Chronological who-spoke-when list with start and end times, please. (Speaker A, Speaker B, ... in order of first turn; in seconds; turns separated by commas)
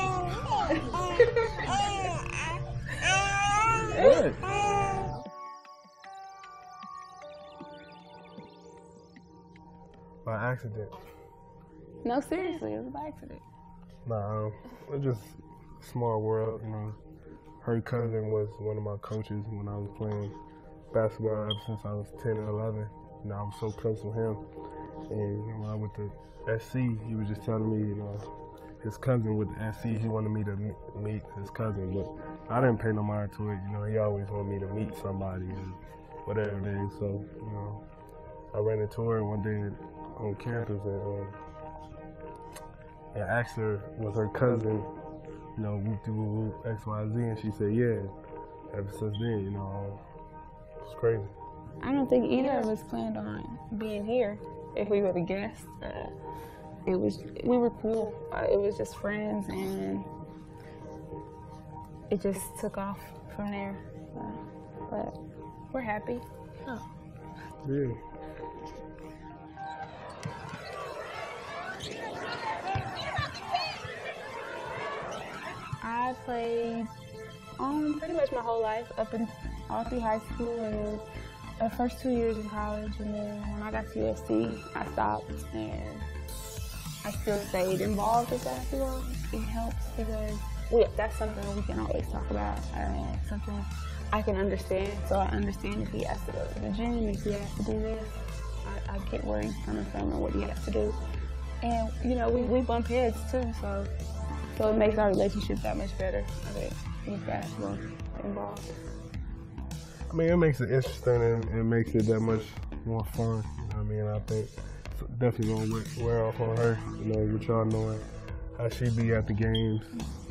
Speaker A: 0.9-2.1, Speaker B: 3.9-4.5, Speaker A: 3.9-4.2, Speaker B: 10.2-11.0, Speaker A: 12.0-13.4, Speaker B: 14.1-17.0, Speaker B: 17.6-20.4, Speaker B: 20.9-24.4, Speaker B: 25.1-37.9, Speaker B: 38.5-41.4, Speaker B: 43.1-44.9, Speaker B: 45.6-48.1, Speaker B: 48.7-50.0, Speaker B: 50.8-51.4, Speaker A: 51.8-56.2, Speaker A: 56.9-60.1, Speaker A: 62.1-65.2, Speaker A: 65.7-66.8, Speaker B: 67.6-68.0, Speaker A: 75.8-76.9, Speaker A: 77.6-81.0, Speaker A: 81.6-86.1, Speaker A: 87.0-101.0, Speaker A: 101.6-103.9, Speaker A: 104.5-108.8, Speaker B: 110.1-120.1